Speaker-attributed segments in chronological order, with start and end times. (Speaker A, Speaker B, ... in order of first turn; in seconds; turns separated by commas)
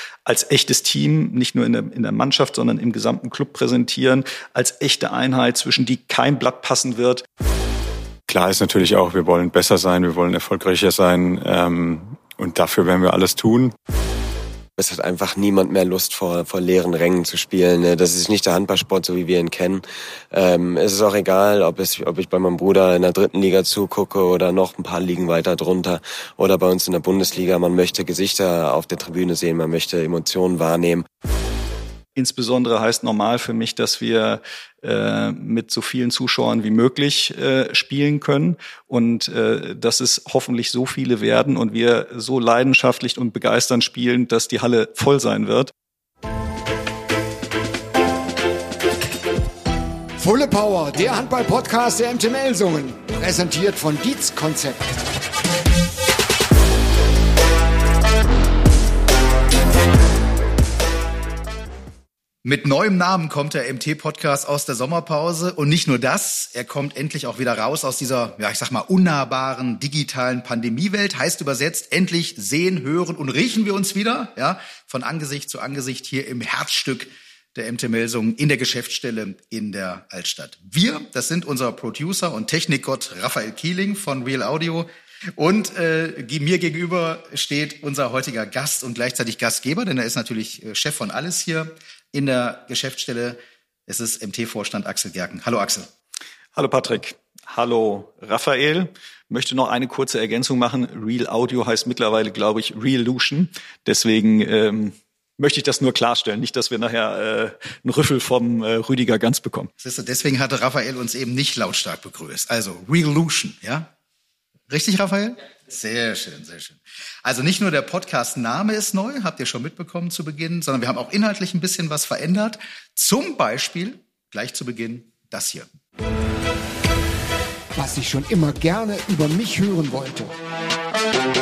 Speaker A: 0.2-7.2, Speaker B: 8.3-13.7, Speaker C: 14.8-31.1, Speaker A: 32.1-45.7, Speaker D: 50.2-55.0, Speaker E: 62.4-95.9, Speaker A: 96.5-109.7, Speaker E: 109.8-113.9, Speaker E: 114.7-125.7, Speaker D: 127.7-130.3